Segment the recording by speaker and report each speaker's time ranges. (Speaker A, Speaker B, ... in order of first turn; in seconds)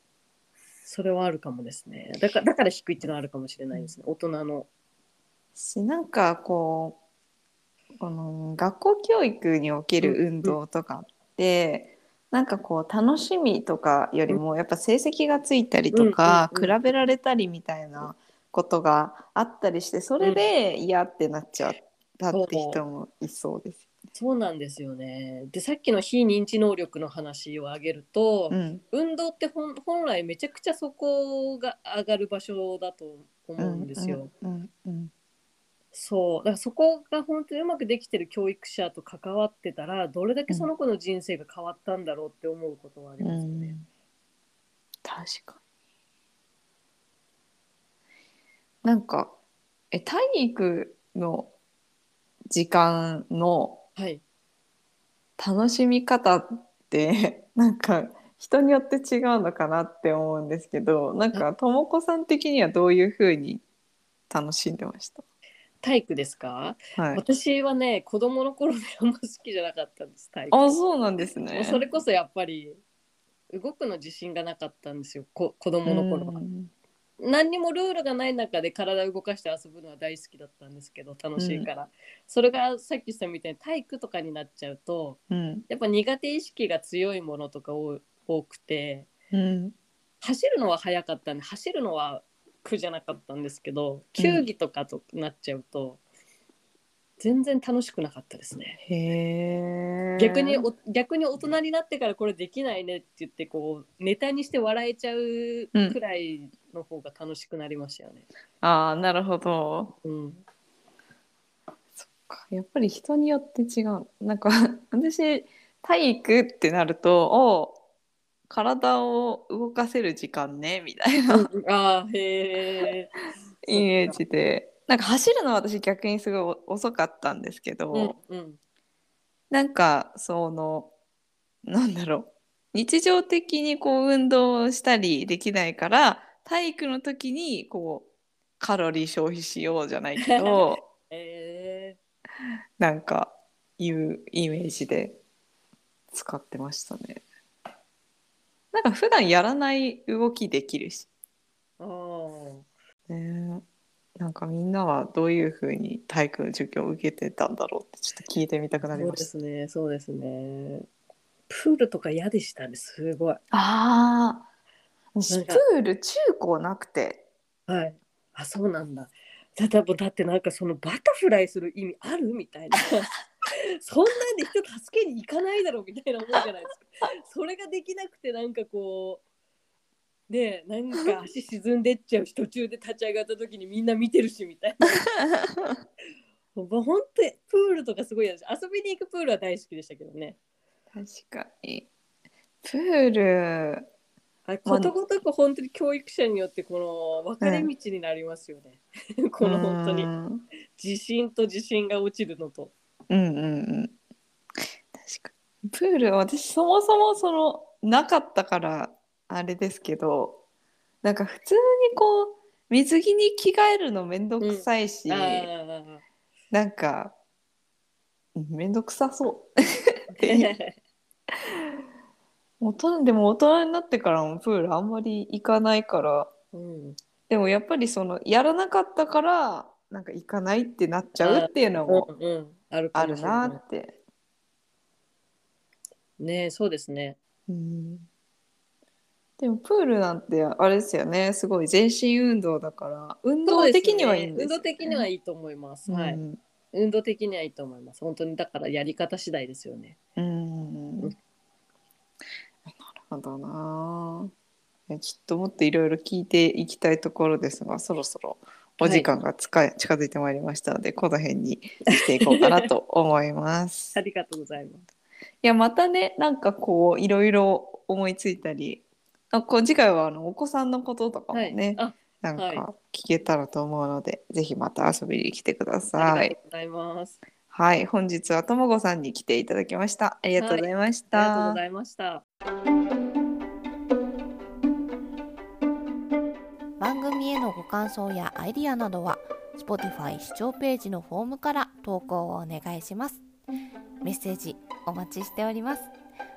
Speaker A: 0.8-4.7, 10.0-10.6, 15.9-16.8, 20.2-20.5, 22.3-22.8, 24.1-34.3, 35.9-43.8, 54.0-54.2, 65.8-70.8, 71.5-72.8, 73.5-76.4, 77.2-89.1, 90.2-96.0, 97.2-98.8, 100.2-108.3, 110.0-110.4, 121.3-123.1, 123.7-124.2, 127.9-128.6, 140.2-142.0, 151.8-152.7, 158.9-160.9, 161.5-163.4, 165.3-165.6, 167.7-179.2, 180.3-185.1, 186.6-190.4, 194.5-200.1, 200.8-202.7, 214.4-216.0, 220.1-220.7, 226.5-227.0, 231.2-233.6, 236.2-237.2, 243.4-250.0, 258.8-259.1, 262.3-262.6, 263.9-264.9, 271.3-272.7, 276.0-277.2, 280.4-282.2
Speaker B: 5.6-7.0, 8.0-23.9, 28.5-28.8, 33.6-35.1, 43.2-43.9, 45.0-45.6, 48.8-49.4, 49.9-51.5, 52.5-53.8, 55.4-63.6, 64.3-65.2, 67.0-67.2, 70.5-71.8, 75.9-76.7, 81.4-81.7, 85.3-85.7, 89.3-89.8, 94.2-94.5, 98.8-100.7, 108.6-110.0, 112.0-117.8, 118.5-121.5, 123.6-128.2, 129.5-130.9, 131.7-138.1, 138.6-140.8, 142.8-145.2, 146.1-147.2, 148.7-151.1, 153.1-153.6, 154.2-159.3, 163.5-164.5, 165.2-167.2, 185.3-185.8, 190.9-191.9, 192.6-193.9, 194.7-194.9, 197.4-197.7, 199.4-200.4, 203.1-203.9, 204.9-210.4, 211.0-215.5, 216.5-217.2, 218.3-220.5, 222.6-226.3, 227.3-232.1, 232.9-234.0, 237.5-238.1, 239.4-245.1, 245.9-246.4, 250.2-251.1, 252.7-254.3, 254.9-264.0, 265.4-276.4, 277.5-281.6
Speaker C: 286.8-293.2, 294.0-295.9